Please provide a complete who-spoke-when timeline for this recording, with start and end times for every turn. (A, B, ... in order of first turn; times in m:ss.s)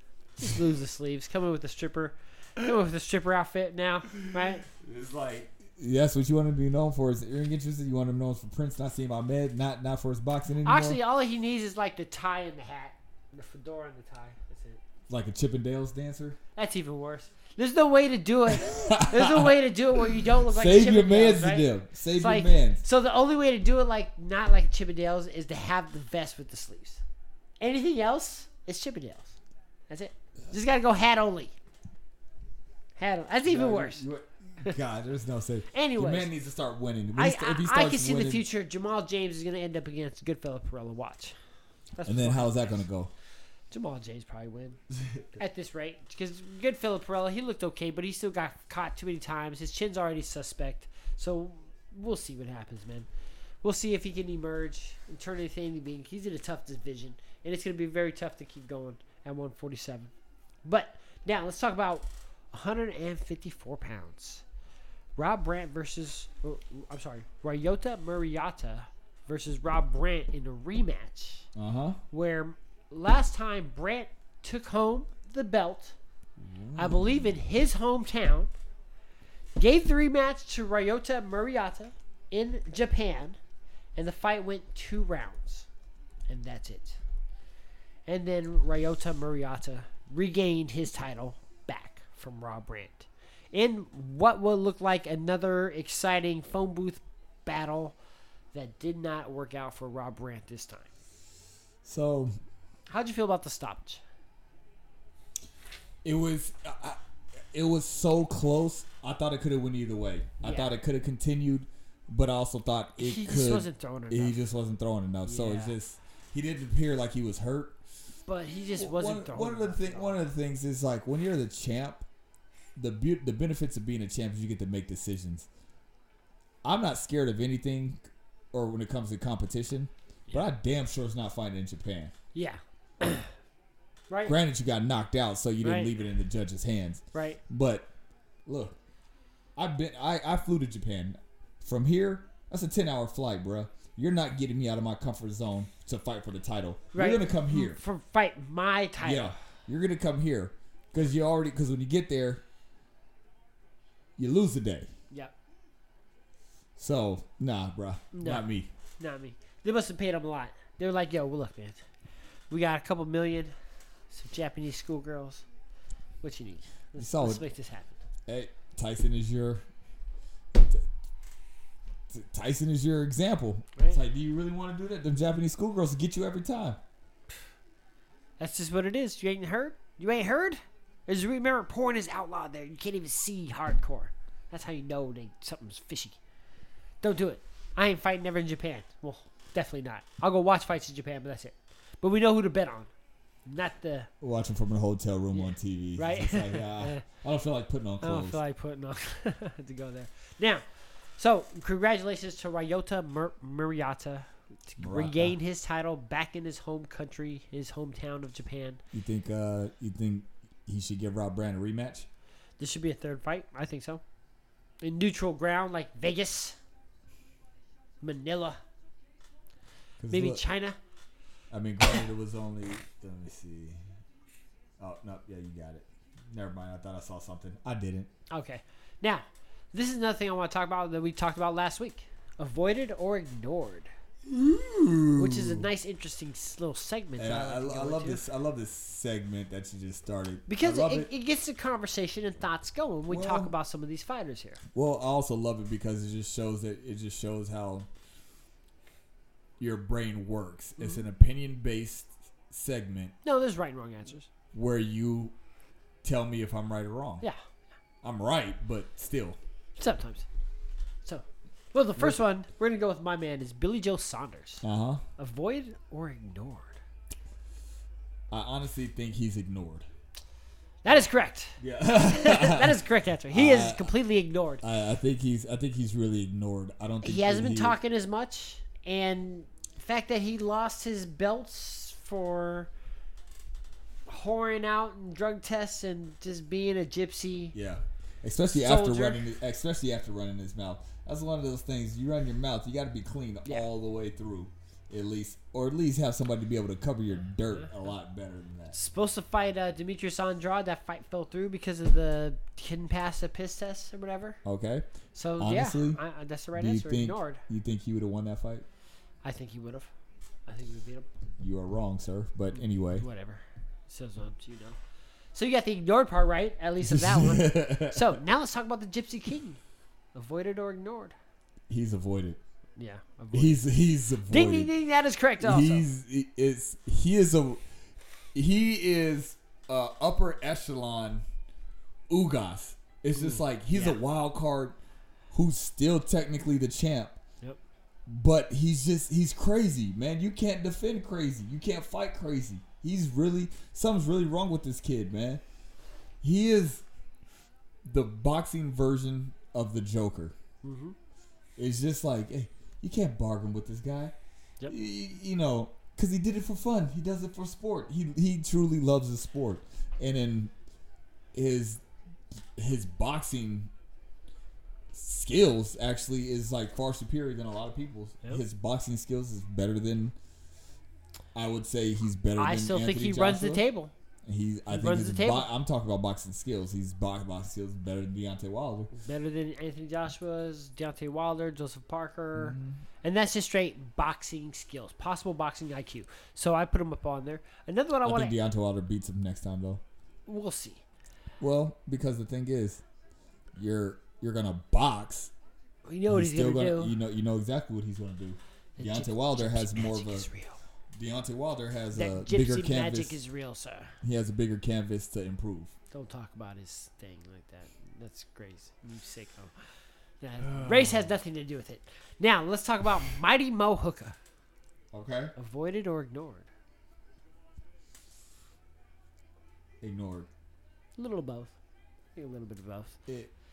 0:00.4-0:04.6 A
0:04.7-0:11.0 B
0:10.6-0:14.8 A
0:15.1-0:16.4 B
0:16.6-0:27.0 A
0:18.5-0:19.5 B
0:20.2-0:22.8 B
0:27.6-0:29.4 A
0:29.9-0:31.5 A
0:33.0-0:34.0 A
0:33.4-0:38.4 B
0:35.7-0:36.3 A
0:37.2-0:41.3 A
0:42.0-0:42.8 A
0:42.0-0:43.1 B
0:43.7-0:44.8 A
0:45.0-0:45.2 B
0:45.3-0:53.1 A
0:53.6-1:00.1 A
1:00.6-1:04.4 A
1:05.2-1:11.5 A
1:11.5-1:12.0 B
1:12.1-1:15.9 A
1:16.4-1:17.3 B
1:16.7-1:18.5 A
1:19.6-1:23.4 A
1:24.0-1:25.7 A
1:26.3-1:27.0 A
1:28.1-1:38.0 A
1:38.5-1:40.9 A
1:41.8-1:42.3 B
1:42.9-1:44.0 A
1:46.0-1:47.0 B
1:47.5-1:57.8 B
1:50.4-1:50.7 A
1:53.0-1:54.4 A
1:55.2-1:55.8 A
1:58.2-2:00.3 A
1:58.5-2:02.0 B
2:02.8-2:05.5 B
2:06.6-2:12.1 B
2:12.3-2:13.3 A
2:14.1-2:14.4 A
2:14.2-2:17.9 B
2:15.6-2:15.9 A
2:17.1-2:17.4 A
2:18.4-2:18.8 B
2:19.6-2:27.8 B
2:26.9-2:29.4 A
2:29.0-2:32.4 B
2:34.2-2:34.9 B
2:36.8-2:38.7 B
2:38.1-2:38.4 A
2:39.0-2:41.8 A
2:42.5-2:43.5 A
2:44.1-2:45.4 A
2:46.2-2:48.0 A
2:47.0-2:47.4 B
2:48.3-2:49.6 B
2:50.5-2:50.9 B
2:52.1-2:56.8 B
2:58.4-3:06.2 A
3:07.0-3:12.9 A
3:13.4-3:14.1 A
3:14.2-3:18.4 B
3:15.3-3:17.0 A
3:18.0-3:20.6 A
3:21.2-3:28.8 A
3:24.8-3:25.4 B
3:28.9-3:32.1 B
3:32.6-3:34.0 A
3:34.8-3:36.6 A
3:38.0-3:38.6 A
3:40.0-3:40.4 B
3:40.1-3:40.8 A
3:41.5-3:43.8 B
3:44.8-3:48.1 B
3:48.3-3:53.9 A
3:54.2-3:55.7 B
3:55.1-3:58.2 A
3:57.2-4:01.1 B
4:00.5-4:04.6 A
4:03.1-4:03.5 B
4:04.7-4:07.9 B
4:09.6-4:13.1 B
4:13.2-4:14.3 A
4:14.5-4:15.3 B
4:16.0-4:17.2 B
4:18.0-4:19.4 B
4:19.8-4:20.2 A
4:21.0-4:24.6 A
4:24.6-4:25.0 B
4:25.2-4:26.8 A
4:28.3-4:29.9 B
4:30.8-4:34.6 A
4:31.6-4:33.9 B
4:34.6-4:37.8 B
4:37.0-4:42.7 A
4:44.1-4:47.5 A
4:47.5-4:58.8 B
4:48.5-4:49.2 A
4:58.7-5:04.4 A
5:04.4-5:04.9 B
5:05.1-5:07.4 A
5:05.4-5:06.0 B
5:06.5-5:08.6 B
5:09.2-5:09.9 A
5:10.5-5:11.1 A
5:11.4-5:13.0 B
5:12.9-5:14.8 A
5:15.3-5:19.6 A
5:16.8-5:18.2 B
5:20.1-5:21.1 A
5:21.7-5:22.4 B
5:22.8-5:23.7 A
5:23.3-5:24.7 B
5:24.3-5:25.9 A
5:25.4-5:27.6 B
5:28.3-5:31.2 B
5:32.1-5:34.8 B
5:33.2-5:34.0 A
5:35.3-5:37.2 B
5:38.1-5:45.4 B
5:46.2-5:46.8 B
5:47.8-5:50.3 B
5:50.6-5:51.0 A
5:51.6-5:54.1 B
5:54.7-6:00.5 B
6:01.3-6:01.8 B
6:02.6-6:03.7 B
6:04.9-6:10.2 B
6:11.3-6:13.6 B
6:12.4-6:13.9 A
6:14.2-6:18.9 B
6:14.7-6:15.5 A
6:18.9-6:28.4 A
6:22.4-6:22.8 B
6:28.0-6:29.8 B
6:30.3-6:30.8 A
6:31.4-6:32.8 B
6:33.5-6:35.3 B
6:35.8-6:36.9 A
6:36.1-6:40.3 B
6:38.8-6:40.6 A
6:41.0-6:43.2 B
6:41.9-6:44.0 A
6:44.0-6:45.7 B
6:45.9-6:49.5 A
6:50.2-6:54.2 A
6:50.4-6:51.1 B
6:54.9-6:55.3 B
6:55.4-6:56.5 A
6:59.8-7:00.3 B
7:01.0-7:01.5 A
7:02.2-7:03.0 A